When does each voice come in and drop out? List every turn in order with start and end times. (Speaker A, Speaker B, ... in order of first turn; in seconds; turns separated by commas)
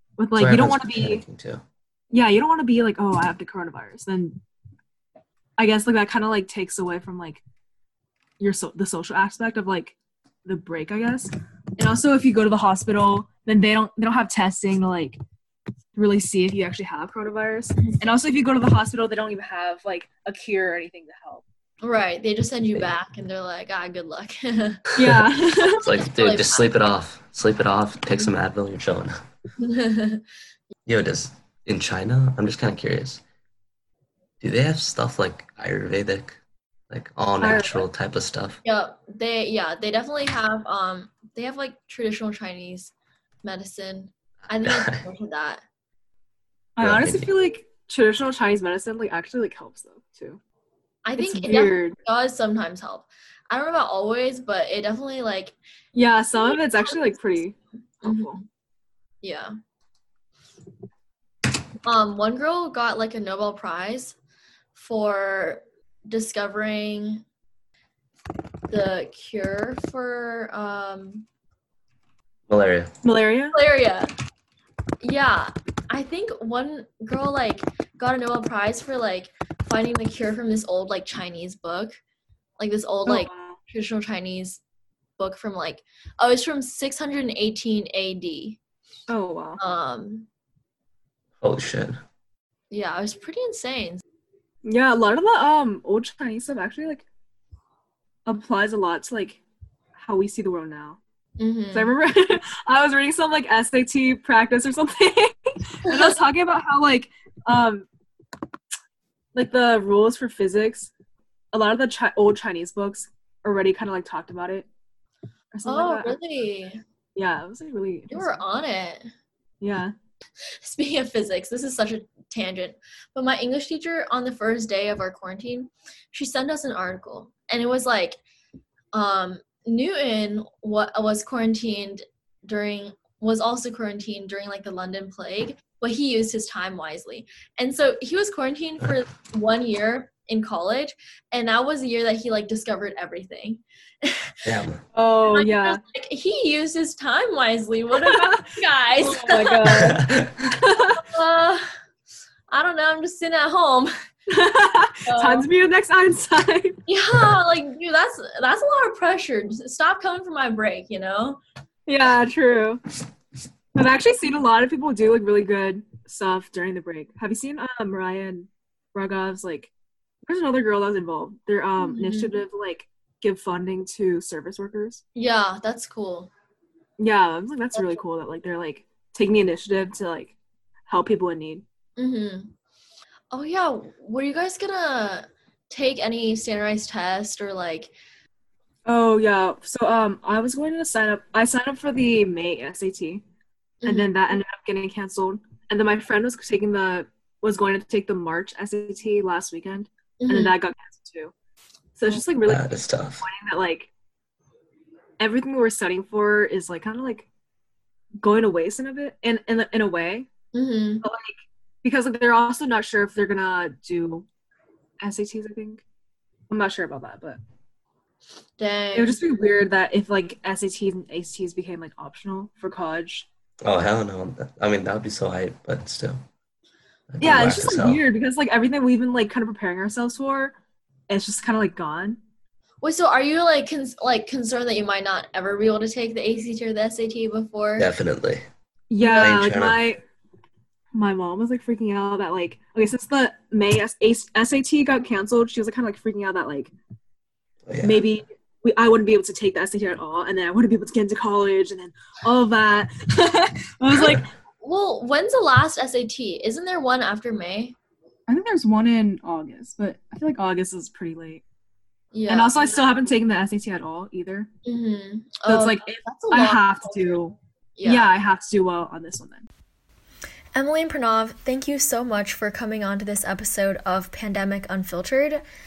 Speaker A: 0.2-1.2, Speaker B: 0.3-1.6, Speaker A: 2.1-4.4, Speaker A: 5.6-7.4, Speaker A: 8.4-15.2, Speaker A: 15.9-21.4, Speaker C: 17.8-18.1, Speaker C: 21.8-24.9, Speaker B: 24.9-29.1, Speaker A: 25.0-25.9, Speaker C: 25.7-26.7, Speaker C: 29.6-30.2, Speaker B: 30.9-33.2, Speaker B: 34.4-36.4, Speaker B: 36.9-38.6, Speaker A: 37.4-37.9, Speaker C: 38.6-45.6, Speaker B: 44.6-45.1, Speaker A: 46.8-50.4, Speaker B: 46.8-47.3, Speaker C: 51.0-55.6, Speaker A: 51.2-52.0, Speaker A: 55.9-58.4, Speaker C: 56.4-57.2, Speaker C: 58.0-58.4, Speaker C: 59.2-59.5, Speaker C: 61.8-64.2, Speaker C: 64.8-67.2, Speaker C: 68.7-71.3, Speaker B: 72.5-72.9, Speaker A: 73.0-73.5, Speaker C: 73.5-74.1, Speaker C: 75.0-82.0, Speaker C: 82.6-84.6, Speaker A: 83.1-83.6, Speaker C: 85.2-88.6, Speaker A: 89.1-89.6, Speaker C: 89.6-90.3, Speaker B: 91.4-92.0, Speaker C: 92.7-94.0, Speaker A: 94.6-97.1, Speaker A: 98.3-99.4, Speaker A: 100.0-101.0, Speaker C: 101.4-101.9, Speaker A: 101.7-107.9, Speaker C: 105.9-106.1, Speaker A: 109.3-110.9, Speaker A: 111.5-114.7, Speaker A: 115.5-116.2, Speaker C: 115.6-116.8, Speaker A: 117.2-118.4, Speaker C: 118.1-119.1, Speaker A: 119.6-119.9, Speaker C: 120.6-128.2, Speaker C: 128.9-144.4, Speaker B: 144.4-144.8, Speaker A: 144.9-145.8, Speaker C: 145.3-149.9, Speaker A: 148.0-148.4, Speaker A: 149.0-151.0, Speaker B: 149.8-150.3, Speaker C: 150.8-151.7, Speaker C: 152.5-153.9, Speaker A: 154.3-156.8, Speaker C: 155.1-155.5, Speaker C: 156.9-161.4, Speaker A: 161.9-162.8, Speaker A: 163.8-169.7, Speaker A: 170.3-175.0, Speaker C: 171.8-172.4, Speaker C: 175.1-176.3, Speaker A: 177.0-180.3, Speaker C: 177.7-178.0, Speaker A: 180.9-181.6, Speaker C: 182.0-182.5, Speaker C: 183.3-187.9, Speaker A: 188.9-193.2, Speaker C: 193.8-194.1, Speaker A: 193.8-201.3, Speaker C: 200.2-200.6, Speaker A: 201.9-203.9, Speaker B: 202.4-203.3, Speaker A: 205.2-207.3, Speaker A: 208.2-210.3, Speaker C: 210.5-211.1, Speaker A: 211.0-214.3, Speaker A: 215.0-215.8, Speaker A: 216.5-217.4, Speaker C: 218.6-219.2, Speaker A: 218.9-223.3, Speaker B: 223.6-226.2, Speaker B: 227.1-228.1, Speaker A: 227.2-230.6, Speaker A: 231.1-232.2, Speaker C: 232.8-237.9, Speaker B: 237.8-238.4, Speaker A: 238.9-240.0, Speaker C: 239.0-239.3, Speaker B: 239.1-239.8, Speaker A: 240.9-246.7, Speaker B: 247.7-248.1, Speaker A: 247.8-254.3, Speaker B: 253.9-254.2, Speaker C: 254.6-257.8, Speaker A: 258.3-261.4, Speaker C: 262.1-262.6, Speaker A: 262.3-264.5, Speaker C: 264.6-268.1, Speaker A: 265.5-269.5, Speaker C: 270.6-275.4